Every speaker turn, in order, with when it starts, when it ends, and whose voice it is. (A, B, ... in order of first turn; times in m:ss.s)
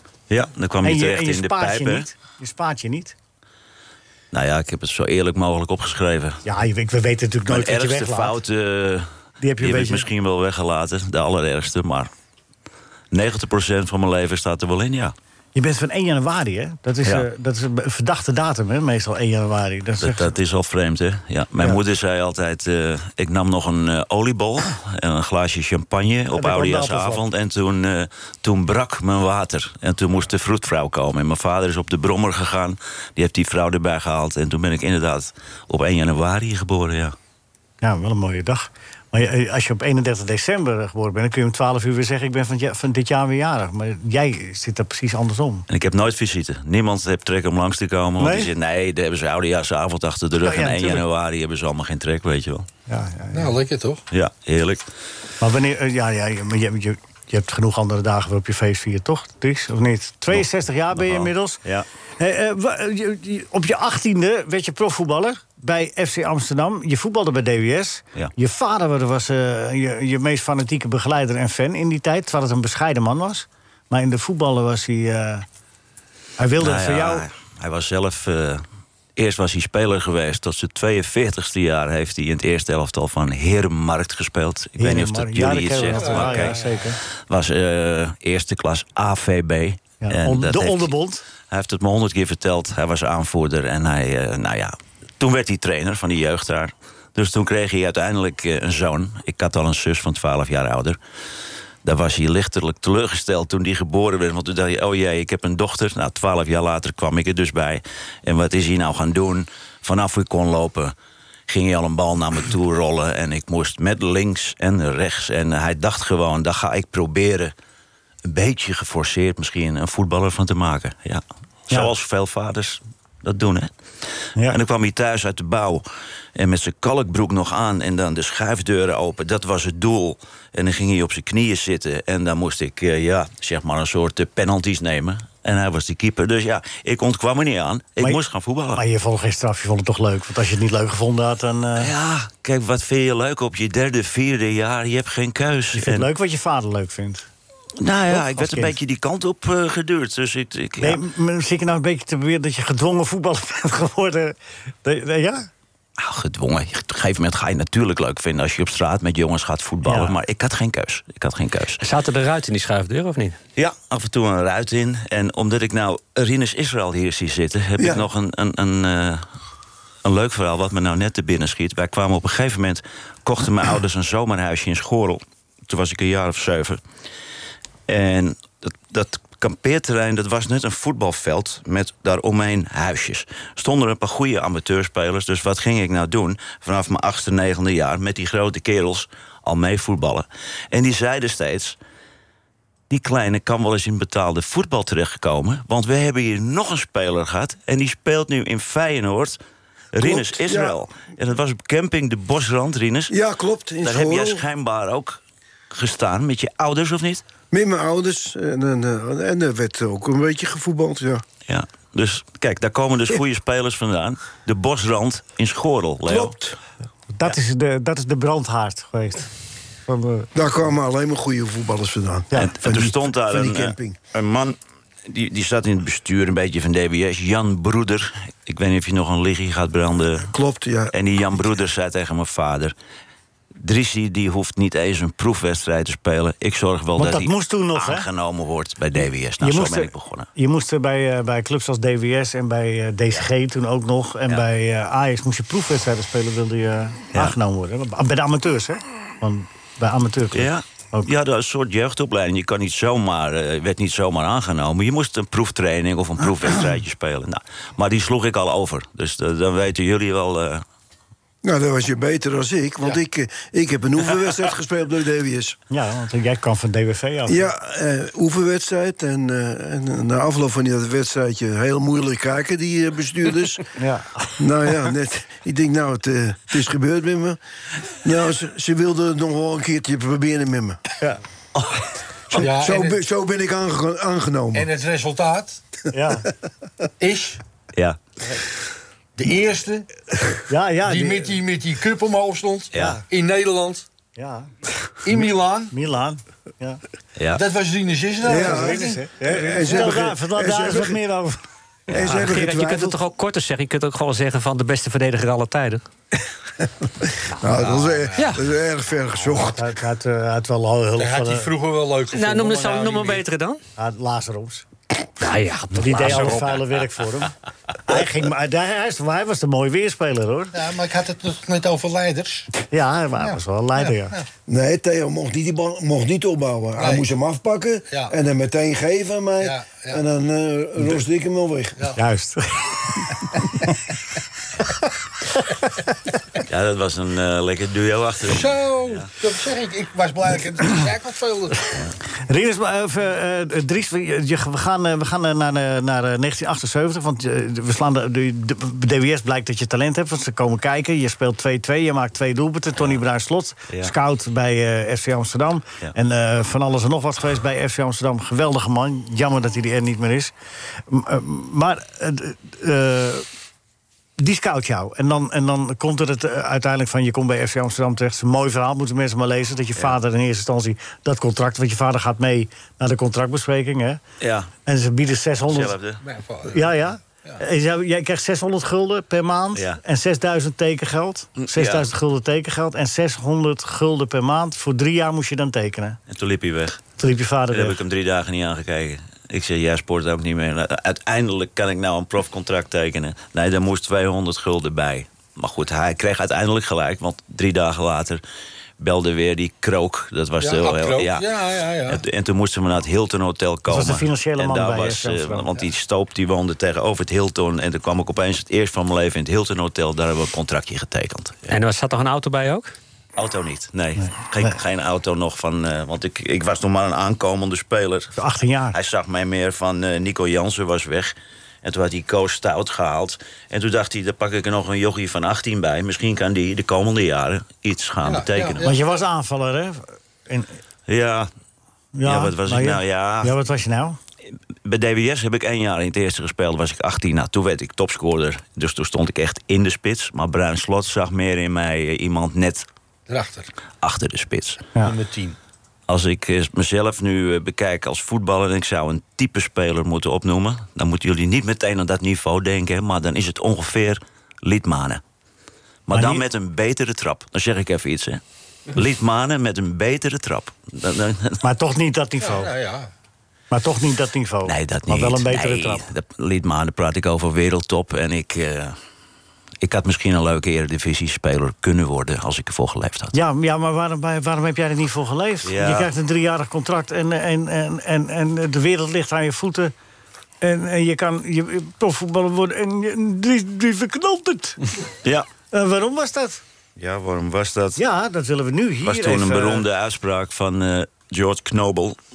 0:00.3-0:02.1 A
0:00.8-0:03.2 B
0:04.3-0:06.4 A
0:06.4-0:08.4 B
0:07.5-0:09.1 A
0:09.4-0:10.1 B
0:09.6-0:12.1 A
0:13.1-0:15.1 A
0:15.6-0:20.3 B
0:20.0-0:37.2 A
0:26.3-0:27.2 B
0:37.8-0:45.7 B
0:45.7-0:52.7 A
0:48.2-0:48.5 B
0:50.4-0:51.0 B
0:52.9-0:53.6 B
0:53.3-0:54.0 C
0:54.1-0:54.8 A
0:55.4-1:01.6 B
1:00.9-1:01.9 A
1:02.2-1:15.5 B
1:16.4-1:17.3 B
1:16.6-1:18.6 A
1:19.2-1:26.6 A
1:24.8-1:27.0 B
1:25.8-1:26.9 C
1:27.3-1:30.9 A
1:30.0-1:31.2 B
1:31.4-1:41.0 A
1:41.8-1:50.9 A
1:51.5-1:57.5 A
1:58.3-2:03.7 A
2:04.5-2:05.8 A
2:06.4-2:18.8 A
2:18.7-2:21.9 B
2:21.8-2:26.1 A
2:25.7-2:27.3 B
2:27.8-2:31.0 A
2:28.1-2:28.8 B
2:30.8-2:35.5 B
2:36.0-2:41.8 A
2:39.8-2:40.1 B
2:41.8-2:43.4 D
2:43.6-2:49.2 A
2:47.8-2:48.0 E
2:50.0-2:56.8 A
2:57.9-3:11.8 A
3:12.9-3:19.4 A
3:19.9-3:23.1 A
3:20.0-3:20.8 E
3:23.1-3:24.4 E
3:23.8-3:25.2 A
3:25.7-3:27.2 A
3:27.5-3:31.2 E
3:31.5-3:36.4 A
3:36.0-3:36.6 E
3:37.2-3:39.3 B
3:39.9-3:40.3 B
3:40.3-3:44.0 E
3:42.4-3:50.3 A
3:50.3-3:50.9 E
3:50.9-3:52.8 A
3:53.6-4:00.3 A
3:57.0-3:58.1 B
3:59.4-4:11.1 B
4:10.3-4:20.6 A
4:21.4-4:25.6 E
4:25.7-4:27.4 B
4:27.3-4:33.7 E
4:33.8-4:34.3 B
4:34.4-4:37.4 E
4:37.9-4:40.8 E
4:42.3-4:44.7 E
4:42.4-4:43.0 C
4:44.5-4:45.6 C
4:45.9-4:46.3 B
4:47.0-4:47.4 C
4:49.2-4:49.9 C
4:50.5-4:51.4 B
4:50.9-4:53.9 C
4:52.7-4:53.0 A
4:52.7-4:53.0 B
4:54.2-4:54.5 B
4:55.0-4:55.7 C
4:55.7-4:56.8 B
4:57.2-4:57.4 A
4:57.4-4:59.1 C
4:58.2-5:01.0 E
4:58.3-5:01.4 B
5:01.9-5:03.0 E
5:02.0-5:05.8 D
5:07.4-5:09.7 E
5:07.5-5:08.4 C
5:08.2-5:08.4 D
5:09.3-5:11.5 B
5:11.0-5:13.2 C
5:12.1-5:13.6 D
5:13.8-5:14.7 B
5:15.2-5:16.6 D
5:15.8-5:20.6 B
5:20.5-5:22.5 C
5:22.7-5:24.2 B
5:23.2-5:24.2 C
5:24.5-5:31.9 E
5:26.8-5:27.0 C
5:29.4-5:30.0 C
5:32.0-5:32.9 B
5:36.5-5:39.1 A
5:38.3-5:41.9 C
5:42.2-6:00.3 B
5:53.7-5:53.9 A
6:00.9-6:03.3 B
6:04.2-6:14.0 B
6:14.2-6:14.5 A
6:14.6-6:15.8 B
6:15.5-6:16.0 A
6:16.0-6:16.7 C
6:16.5-6:26.0 B
6:19.6-6:19.8 A
6:21.4-6:21.9 A
6:26.1-6:26.8 A
6:27.0-6:27.8 B
6:27.5-6:38.2 A
6:38.8-6:41.3 A
6:40.4-6:42.0 C
6:41.9-6:51.6 A
6:43.7-6:45.5 B
6:51.5-6:52.7 D
6:53.2-6:58.2 A
6:54.0-6:54.6 B
6:58.2-6:58.8 B
6:58.7-7:08.7 A
7:08.0-7:08.8 C
7:08.6-7:10.6 B
7:10.9-7:11.3 A
7:12.0-7:14.0 B
7:12.0-7:13.4 A
7:14.6-7:22.7 A
7:23.1-7:23.5 C
7:23.8-7:24.6 A
7:24.8-7:25.4 C
7:25.9-7:35.0 A
7:35.9-7:38.2 A
7:35.9-7:36.2 B
7:38.7-7:41.4 A
7:41.4-7:42.5 B
7:42.2-7:42.9 C
7:43.5-7:45.9 B
7:44.4-7:48.8 A
7:49.6-7:53.2 A
7:53.1-7:59.7 B
7:55.4-7:55.9 A
8:00.4-8:04.7 B
8:05.5-8:06.4 B
8:06.8-8:07.8 A
8:07.8-8:09.7 B
8:08.8-8:12.0 A